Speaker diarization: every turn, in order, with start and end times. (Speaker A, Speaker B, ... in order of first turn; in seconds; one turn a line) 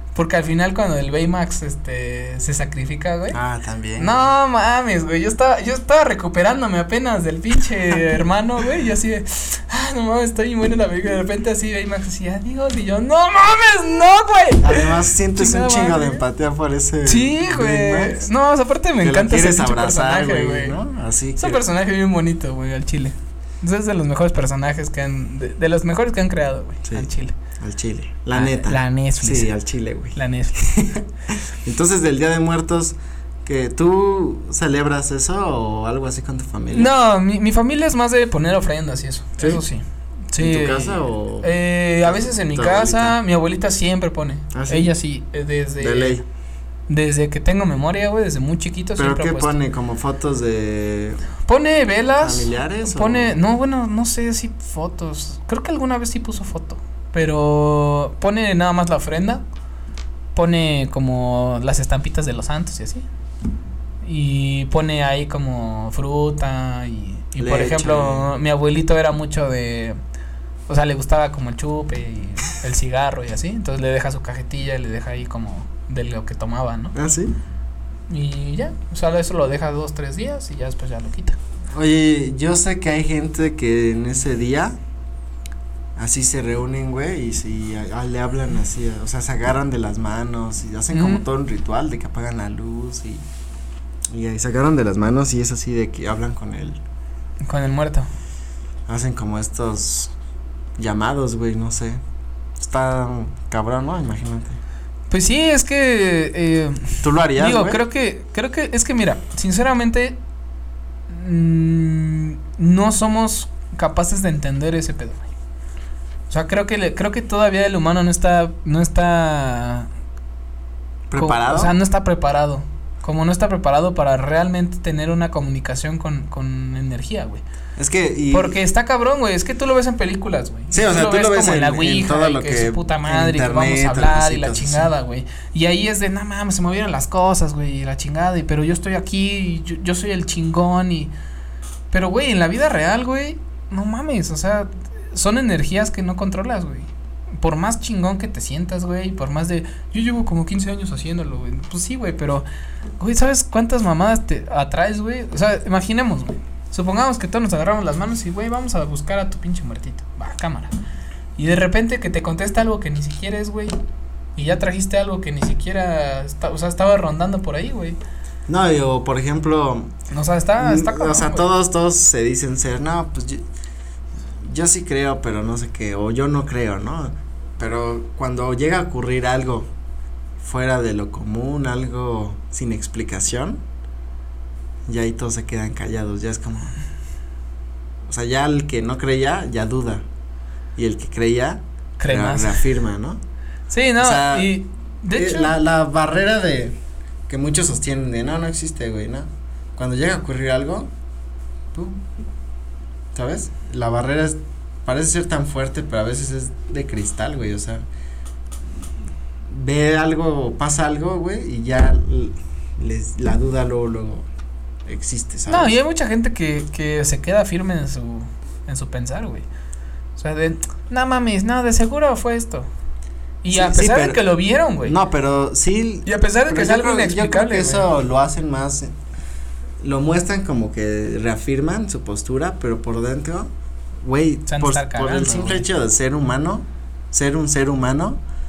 Speaker A: 0.1-3.4
Speaker B: 3.3-4.3
Speaker A: 4.0-16.2
Speaker B: 14.6-18.3
Speaker A: 17.1-20.8
Speaker B: 19.0-21.6
Speaker A: 21.4-27.4
Speaker B: 27.6-36.9
Speaker A: 28.3-29.5
Speaker A: 30.1-30.6
Speaker A: 36.7-46.2
Speaker B: 39.4-39.6
Speaker B: 40.4-43.2
Speaker B: 44.5-44.9
Speaker B: 45.8-46.2
Speaker A: 46.9-49.5
Speaker B: 49.0-51.3
Speaker A: 51.4-59.4
Speaker B: 52.2-53.4
Speaker A: 60.3-63.0
Speaker A: 64.0-70.0
Speaker B: 67.4-68.3
Speaker A: 70.7-77.0
Speaker B: 76.9-77.3
Speaker A: 78.1-81.4
Speaker B: 81.7-84.8
Speaker B: 86.0-93.2
Speaker A: 90.9-91.2
Speaker B: 94.1-96.8
Speaker A: 97.4-98.1
Speaker B: 98.9-100.1
Speaker B: 100.8-102.0
Speaker B: 102.6-104.6
Speaker A: 105.1-110.2
Speaker B: 107.0-107.8
Speaker A: 111.1-115.3
Speaker A: 116.3-119.9
Speaker B: 121.1-121.8
Speaker A: 121.2-127.4
Speaker B: 127.8-128.6
Speaker A: 128.3-141.1
Speaker B: 130.7-134.9
Speaker A: 141.9-152.4
Speaker A: 153.0-160.7
Speaker A: 161.4-163.8
Speaker A: 164.3-168.0
Speaker B: 168.5-169.9
Speaker A: 170.1-171.5
Speaker B: 170.6-173.4
Speaker B: 174.4-179.7
Speaker B: 180.4-183.6
Speaker B: 184.9-186.7
Speaker B: 188.0-190.0
Speaker B: 190.8-193.2
Speaker A: 192.0-192.6
Speaker A: 193.7-195.5
Speaker B: 194.0-194.5
Speaker B: 195.1-196.8
Speaker B: 197.3-200.9
Speaker B: 201.7-202.0
Speaker B: 203.1-207.8
Speaker B: 209.5-214.3
Speaker B: 214.8-215.8
Speaker A: 215.5-219.4
Speaker A: 220.2-222.7
Speaker A: 223.4-224.9
Speaker B: 223.5-224.2
Speaker B: 224.8-228.9
Speaker A: 226.1-227.9
Speaker B: 229.8-233.5
Speaker B: 234.0-238.2
Speaker A: 234.5-235.7